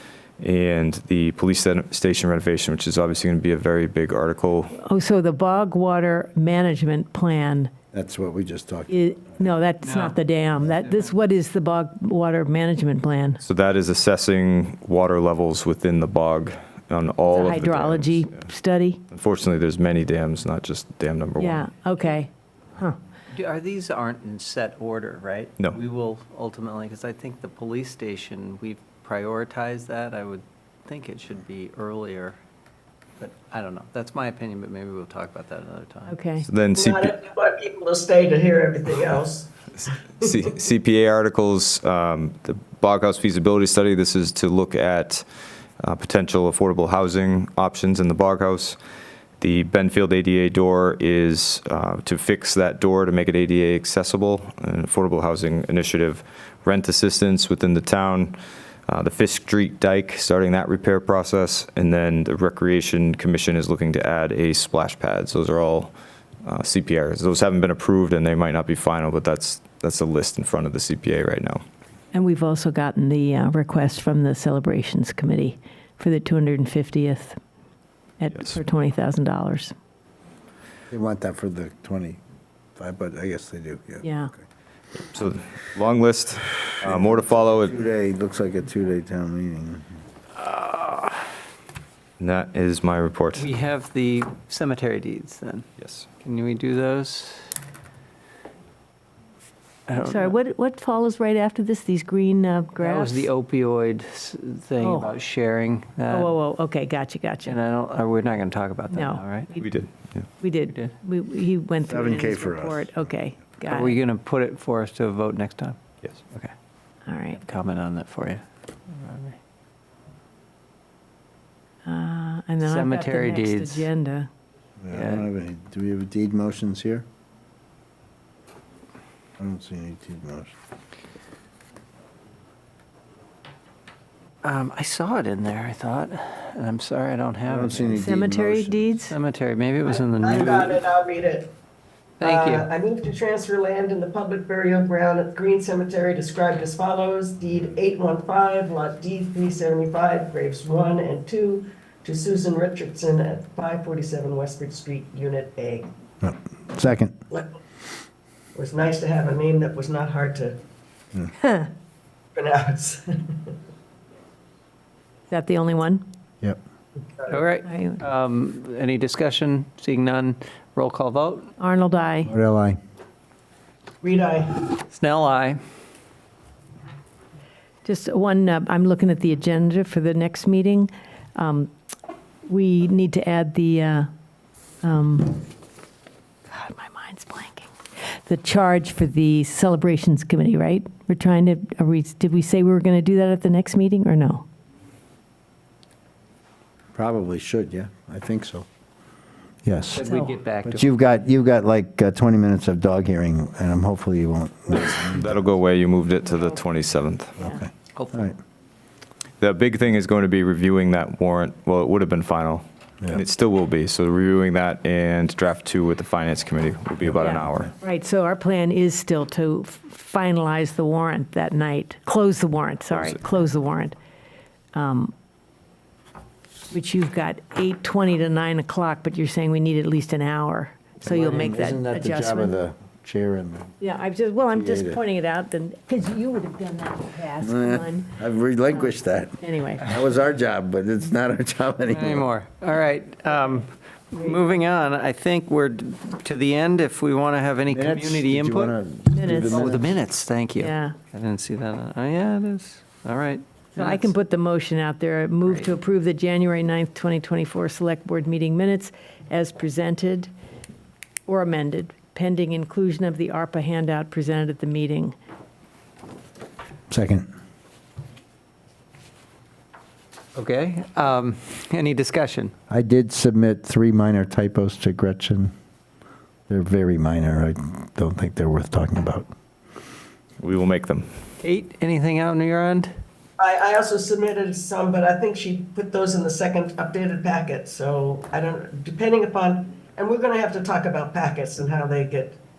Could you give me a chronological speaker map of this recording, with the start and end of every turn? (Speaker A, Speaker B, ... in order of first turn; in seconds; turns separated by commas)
Speaker A: 0.4-4.8, Speaker B: 4.8-7.7, Speaker C: 7.9-9.0, Speaker B: 8.9-13.4, Speaker D: 9.8-10.2, Speaker D: 10.8-11.1, Speaker A: 13.4-18.4, Speaker B: 17.2-19.0, Speaker A: 19.1-21.7, Speaker B: 21.4-23.0, Speaker D: 23.3-32.4, Speaker D: 33.2-36.1, Speaker B: 36.1-36.5, Speaker A: 36.4-37.1, Speaker E: 36.7-39.5, Speaker A: 40.2-45.2, Speaker A: 45.8-48.8, Speaker A: 49.4-58.4, Speaker A: 58.9-65.9, Speaker A: 66.4-71.6, Speaker B: 72.1-77.4, Speaker B: 78.2-79.7, Speaker C: 80.9-82.2, Speaker C: 82.8-84.0, Speaker B: 84.0-84.3, Speaker A: 85.1-87.7, Speaker C: 86.8-90.0, Speaker D: 90.5-91.1, Speaker A: 92.2-93.5, Speaker D: 93.3-95.7, Speaker A: 95.8-96.0, Speaker D: 96.2-97.5, Speaker D: 99.9-100.3, Speaker B: 100.0-103.3, Speaker D: 102.8-106.3, Speaker B: 104.8-105.2, Speaker B: 106.1-107.6, Speaker D: 107.5-109.5, Speaker B: 108.9-109.7, Speaker A: 109.6-110.2, Speaker B: 110.4-114.0, Speaker C: 111.8-113.1, Speaker D: 113.6-115.8, Speaker B: 117.1-117.4, Speaker D: 117.3-119.4, Speaker B: 121.8-124.3, Speaker D: 122.6-123.9, Speaker C: 124.8-127.0, Speaker D: 124.9-125.2, Speaker C: 129.4-130.5, Speaker D: 134.4-138.0, Speaker C: 137.4-138.9, Speaker B: 137.9-139.1, Speaker D: 139.1-140.8, Speaker E: 139.9-141.5, Speaker D: 142.2-142.7, Speaker E: 142.2-155.9, Speaker C: 156.2-157.2, Speaker E: 157.3-157.6, Speaker E: 158.5-160.6, Speaker B: 161.4-161.7, Speaker E: 162.3-163.5, Speaker B: 165.3-166.0, Speaker E: 167.2-167.4, Speaker D: 167.3-171.5, Speaker B: 167.6-168.0, Speaker B: 171.6-172.3, Speaker C: 172.2-172.8, Speaker E: 174.0-174.6, Speaker D: 174.9-175.6, Speaker B: 177.8-181.7, Speaker B: 182.4-184.1, Speaker B: 184.8-185.5, Speaker B: 186.5-187.7, Speaker B: 188.2-194.4, Speaker C: 196.9-198.7, Speaker C: 199.6-200.1, Speaker D: 199.9-200.9, Speaker B: 200.0-200.3, Speaker C: 200.6-205.4, Speaker A: 204.7-207.5, Speaker C: 207.4-208.4, Speaker D: 207.9-208.3, Speaker A: 209.4-217.7, Speaker C: 217.1-217.7, Speaker B: 217.2-223.9, Speaker B: 224.7-225.1, Speaker B: 226.7-232.6, Speaker C: 231.0-233.7, Speaker B: 233.8-238.2, Speaker C: 234.5-235.0, Speaker C: 237.4-242.3, Speaker B: 239.4-239.9, Speaker D: 241.9-248.7, Speaker C: 247.7-250.0, Speaker B: 249.1-249.7, Speaker D: 249.5-254.1, Speaker B: 250.6-251.0, Speaker B: 253.8-260.3, Speaker B: 261.3-265.1, Speaker C: 266.9-267.3, Speaker D: 270.3-272.5, Speaker C: 272.7-275.5, Speaker C: 276.5-279.2, Speaker A: 280.4-281.1, Speaker D: 281.4-282.9, Speaker E: 283.4-292.4